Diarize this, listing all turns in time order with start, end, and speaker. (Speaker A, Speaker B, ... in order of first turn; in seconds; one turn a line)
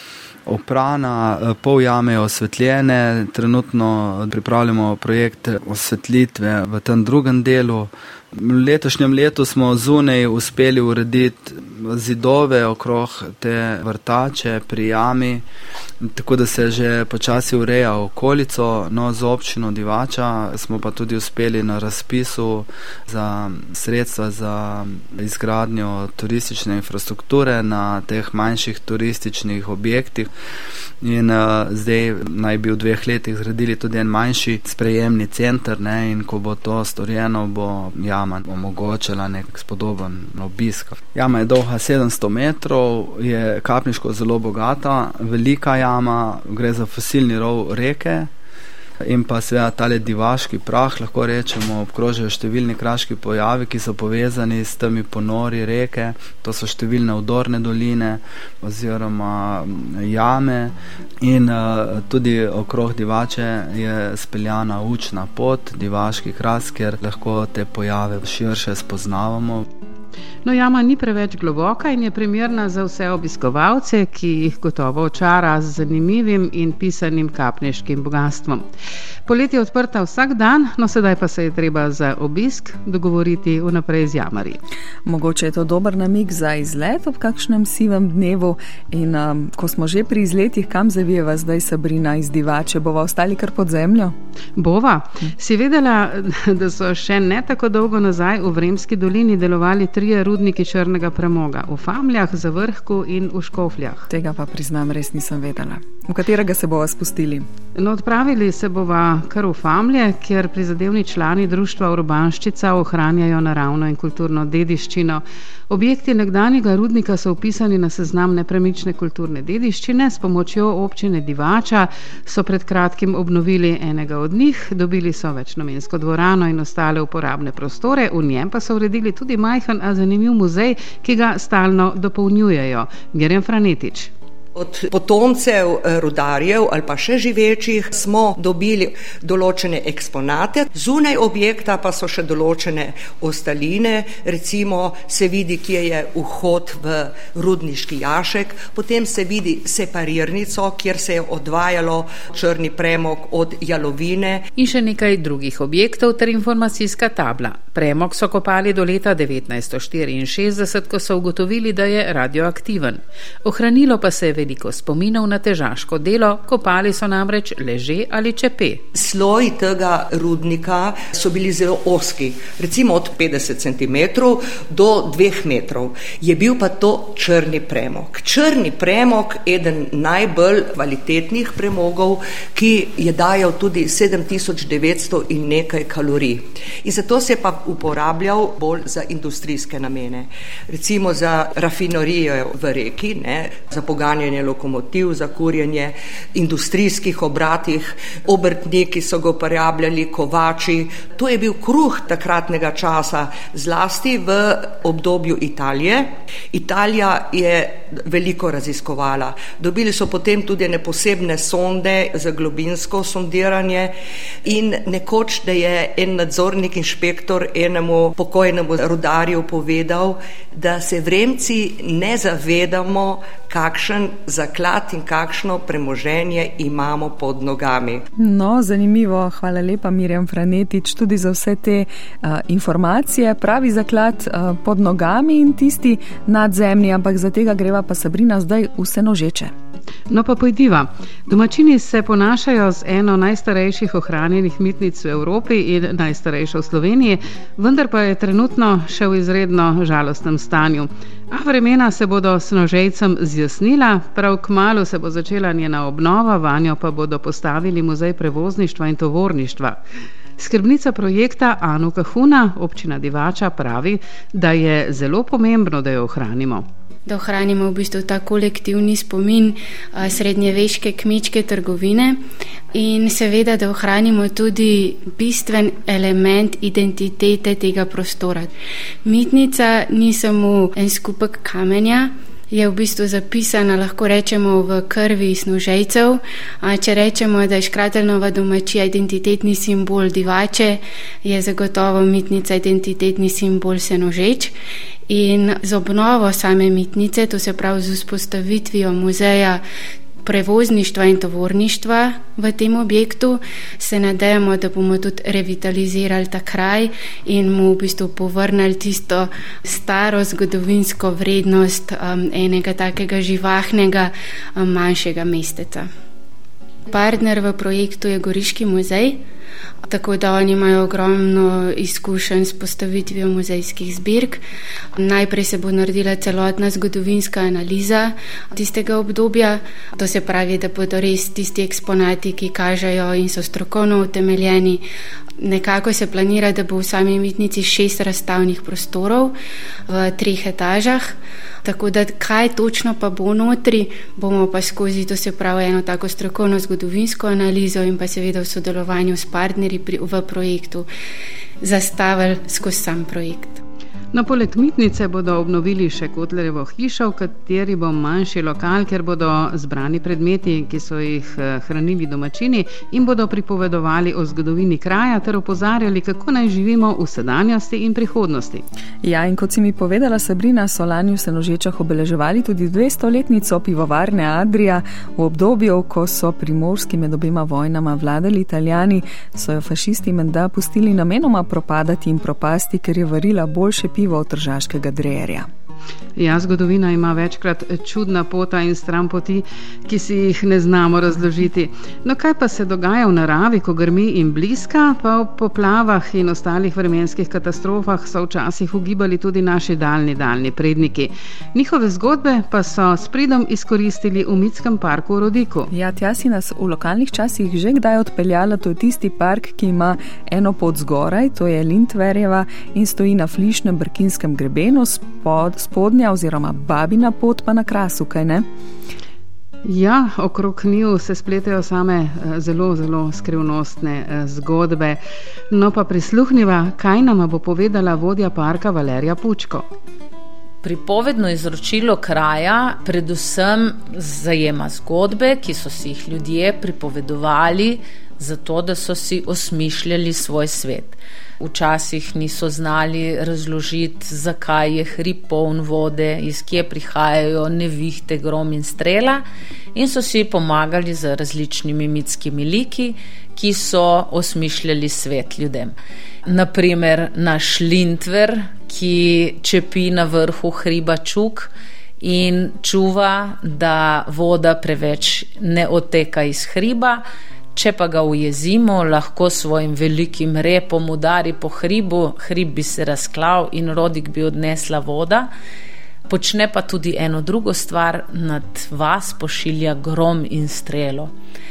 Speaker A: 0.5-15.4
Speaker A: 16.0-30.3
Speaker A: 31.0-48.3
Speaker A: 49.0-69.7
Speaker B: 70.4-78.6
Speaker B: 79.2-84.6
Speaker C: 85.0-94.1
Speaker B: 94.6-104.0
Speaker C: 104.1-107.5
Speaker B: 107.7-134.1
Speaker D: 134.5-154.5
Speaker B: 154.6-168.8
Speaker D: 168.9-213.9
Speaker D: 214.4-228.0
Speaker C: 228.2-239.5
Speaker B: 240.1-259.8
Speaker B: 260.4-266.6
Speaker E: 267.1-272.2
Speaker E: 272.7-278.5
Speaker E: 279.0-294.5
Speaker E: 295.1-299.6
Speaker E: 300.2-315.9
Speaker E: 316.9-319.2
Speaker E: 319.8-324.4
Speaker E: 324.9-334.8
Speaker E: 335.4-339.3
Speaker E: 339.9-350.9
Speaker E: 351.6-353.6
Speaker B: 354.1-368.6
Speaker C: 369.0-385.5
Speaker B: 386.1-405.7
Speaker C: 405.7-418.4
Speaker B: 419.6-425.0
Speaker B: 425.5-429.6
Speaker F: 430.6-449.2
Speaker F: 449.7-455.7
Speaker F: 456.2-467.0
Speaker F: 467.5-475.3
Speaker F: 476.1-481.1